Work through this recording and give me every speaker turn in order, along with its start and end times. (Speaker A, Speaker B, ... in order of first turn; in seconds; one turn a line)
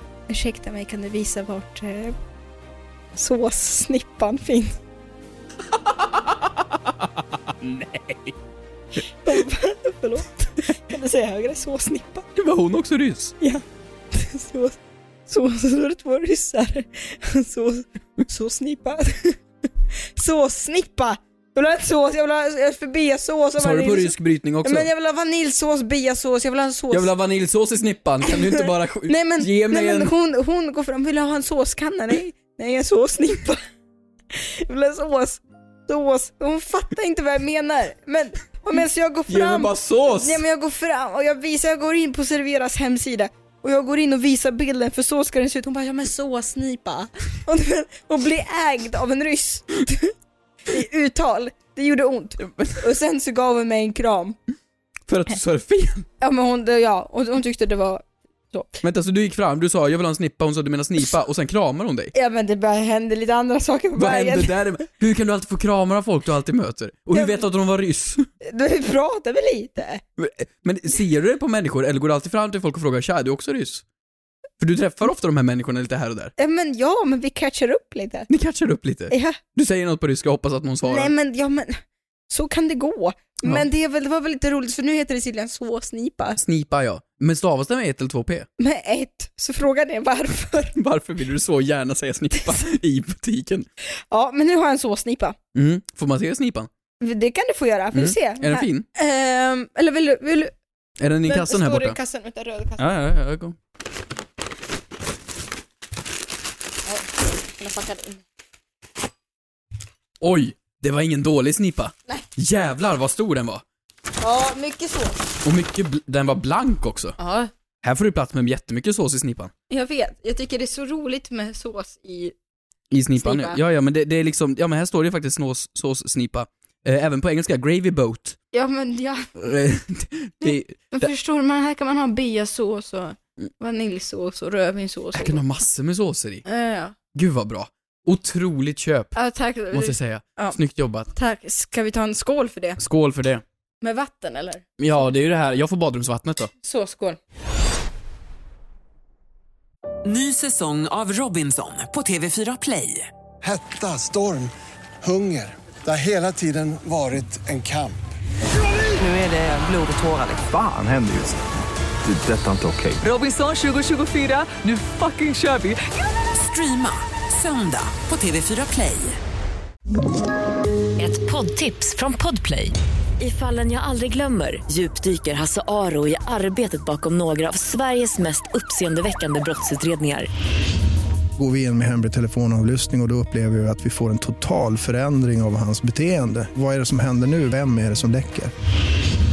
Speaker A: 0.3-2.2
Speaker A: 3.2-4.8
Speaker B: 5.7-8.3
Speaker A: 9.2-12.3
Speaker B: 12.4-13.3
Speaker A: 13.4-19.4
Speaker A: 20.1-27.1
Speaker B: 23.6-24.9
Speaker B: 26.9-30.1
Speaker A: 28.3-33.6
Speaker A: 34.3-50.1
Speaker B: 39.3-40.4
Speaker A: 50.7-54.4
Speaker B: 52.4-52.8
Speaker B: 55.1-56.1
Speaker A: 56.2-58.8
Speaker B: 58.8-62.1
Speaker A: 62.1-64.6
Speaker B: 64.0-68.3
Speaker A: 67.1-67.4
Speaker A: 68.4-70.0
Speaker B: 70.2-73.8
Speaker B: 74.6-76.3
Speaker A: 76.4-78.3
Speaker B: 78.3-81.1
Speaker A: 79.1-79.4
Speaker A: 80.8-86.4
Speaker B: 86.4-88.5
Speaker A: 88.6-90.8
Speaker B: 90.8-93.7
Speaker A: 94.1-95.4
Speaker B: 95.5-96.7
Speaker A: 97.0-100.5
Speaker B: 97.9-98.9
Speaker B: 101.0-102.0
Speaker A: 101.2-102.9
Speaker B: 102.8-103.6
Speaker A: 106.9-108.2
Speaker B: 110.2-113.6
Speaker A: 114.2-115.2
Speaker B: 115.4-117.2
Speaker A: 117.2-117.5
Speaker B: 117.8-119.5
Speaker A: 119.7-122.3
Speaker B: 122.9-128.4
Speaker A: 123.2-123.6
Speaker A: 128.5-129.3
Speaker B: 129.4-131.1
Speaker A: 130.4-135.4
Speaker B: 135.1-136.4
Speaker A: 136.5-137.0
Speaker B: 137.1-139.2
Speaker A: 139.2-140.6
Speaker B: 139.7-141.1
Speaker A: 141.1-142.8
Speaker B: 142.8-143.4
Speaker A: 143.8-144.7
Speaker B: 144.8-146.5
Speaker A: 146.6-147.2
Speaker C: 150.1-153.1
Speaker D: 153.4-154.5
Speaker D: 155.0-158.0
Speaker C: 159.0-160.4
Speaker E: 160.5-161.4
Speaker E: 162.0-163.0
Speaker C: 163.0-169.2
Speaker F: 171.0-180.3
Speaker G: 181.4-188.5